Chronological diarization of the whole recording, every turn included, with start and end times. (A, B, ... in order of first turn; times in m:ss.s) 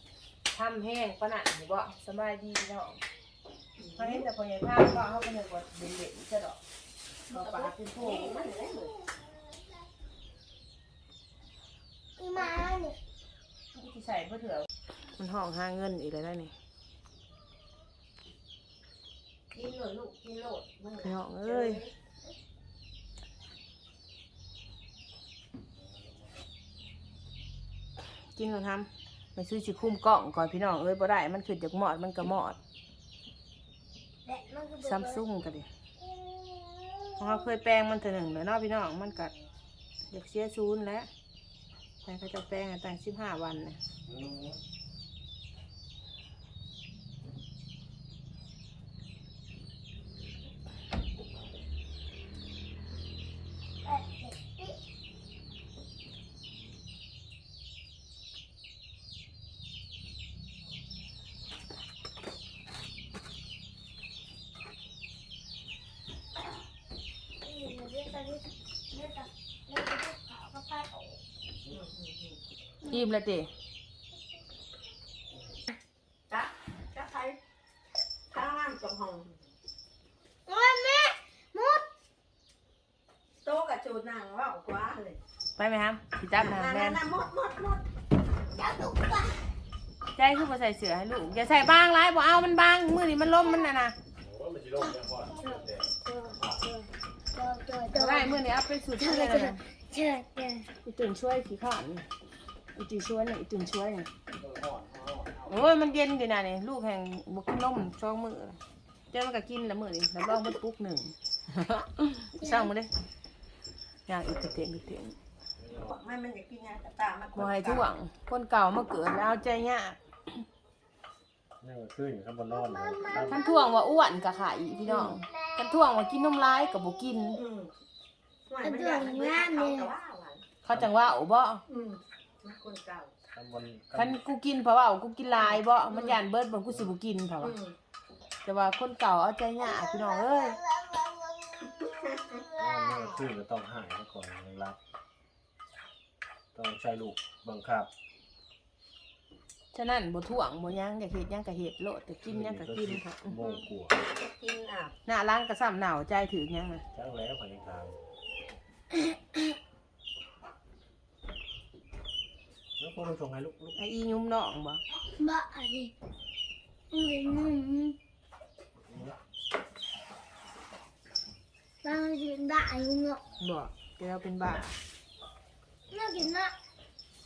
0:00.5-0:03.0 A
0:03.8-0:04.2 B
0:04.0-0:06.6 A
0:07.3-0:09.0 B
0:07.3-0:08.3 A
0:12.2-0:13.0 C
0:13.7-0:16.5 A
0:19.5-0:21.9 B
0:21.0-0:21.8 A
0:28.3-0:32.6 A
0:34.3-0:35.2 C
0:34.8-0:35.7 A
0:36.0-0:37.3 C
0:37.2-0:39.3 A
0:40.1-0:41.1 A
0:42.0-0:43.8 A
0:44.1-0:44.6 D
0:53.8-0:54.8 C
1:07.4-1:11.2 C
1:11.7-1:12.4 B
1:12.8-1:13.5 A
1:16.3-1:17.4 B
1:18.3-1:19.4 B
1:20.5-1:21.8 C
1:23.4-1:25.2 B
1:25.6-1:27.0 A
1:26.3-1:27.8 B
1:28.5-1:29.4 C
1:30.2-1:34.0 A
1:34.2-1:36.6 D
1:34.8-1:40.7 C
1:37.9-1:39.6 A
1:40.8-1:42.1 A
1:42.8-1:44.1 A
1:44.4-1:45.7 D
1:45.5-1:48.6 A
1:49.1-1:52.9 A
1:52.4-1:52.7 C
1:54.1-1:55.2 A
1:55.6-1:55.9 D
1:55.8-1:57.9 B
1:57.4-2:00.0 A
2:01.6-2:03.4 D
2:02.5-2:04.1 C
2:03.3-2:07.4 A
2:05.4-2:05.8 C
2:06.6-2:07.4 C
2:07.4-2:07.7 B
2:08.5-2:10.4 B
2:08.6-2:09.9 C
2:10.6-2:11.6 A
2:11.7-2:13.1 B
2:13.3-2:14.2 D
2:14.0-2:17.6 A
2:15.8-2:16.2 B
2:17.4-2:17.8 B
2:18.4-2:20.6 A
2:19.6-2:23.2 C
2:22.1-2:22.4 B
2:22.6-2:24.8 D
2:26.5-2:27.9 D
2:29.7-2:33.4 A
2:32.3-2:34.0 D
2:34.2-2:34.9 B
2:35.1-2:36.8 A
2:36.9-2:38.0 D
2:42.8-2:43.8 D
2:43.8-2:44.8 A
2:45.2-2:45.9 C
2:46.9-2:48.0 C
2:48.9-2:49.2 D
2:51.8-2:53.2 C
2:53.4-2:54.8 A
2:55.9-2:56.5 C